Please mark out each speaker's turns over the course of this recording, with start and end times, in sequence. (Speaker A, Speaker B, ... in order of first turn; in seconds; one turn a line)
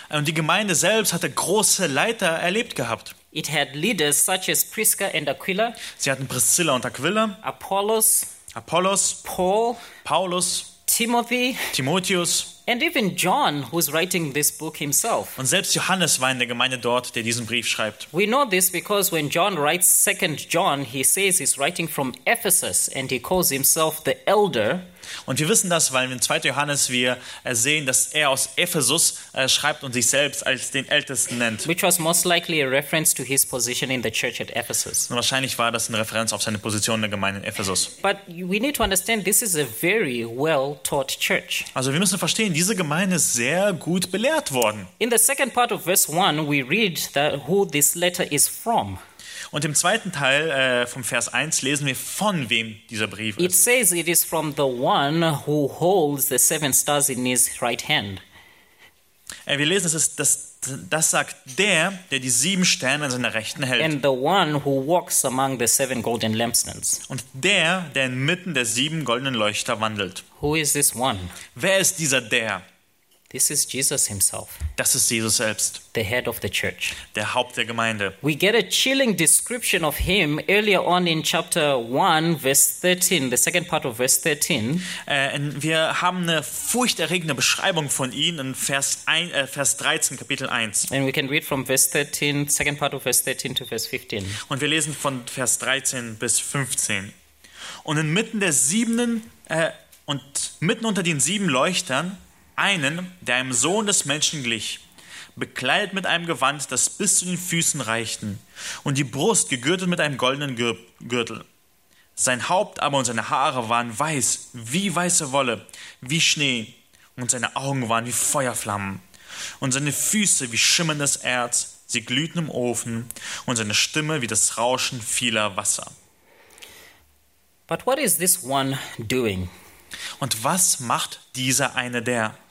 Speaker A: 0.1-3.1
Speaker B: 3.3-5.8
Speaker A: 5.9-7.4
Speaker B: 7.4-8.3
Speaker A: 8.5-9.2
Speaker B: 9.2-9.9
Speaker A: 10.0-10.7
Speaker B: 10.8-11.7
Speaker A: 11.7-12.5
Speaker B: 12.7-15.4
Speaker A: 15.4-18.1
Speaker B: 18.1-24.9
Speaker A: 25.3-31.7
Speaker B: 31.6-35.1
Speaker A: 35.1-37.9
Speaker B: 38.0-41.7
Speaker A: 41.8-44.9
Speaker B: 45.0-49.0
Speaker A: 49.5-53.6
Speaker B: 53.4-58.2
Speaker A: 59.5-64.0
Speaker B: 63.8-67.0
Speaker A: 67.1-70.2
Speaker B: 70.4-71.4
Speaker A: 71.5-72.6
Speaker B: 73.3-74.6
Speaker A: 74.8-75.8
Speaker B: 75.9-77.0
Speaker A: 77.0-78.2
Speaker B: 78.2-84.9
Speaker A: 84.9-90.9
Speaker B: 90.9-94.4
Speaker A: 94.4-97.2
Speaker A: 97.8-104.8
Speaker A: 105.4-111.5
Speaker A: 112.2-119.0
Speaker A: 119.6-125.9
Speaker B: 127.7-129.5
Speaker A: 130.2-132.4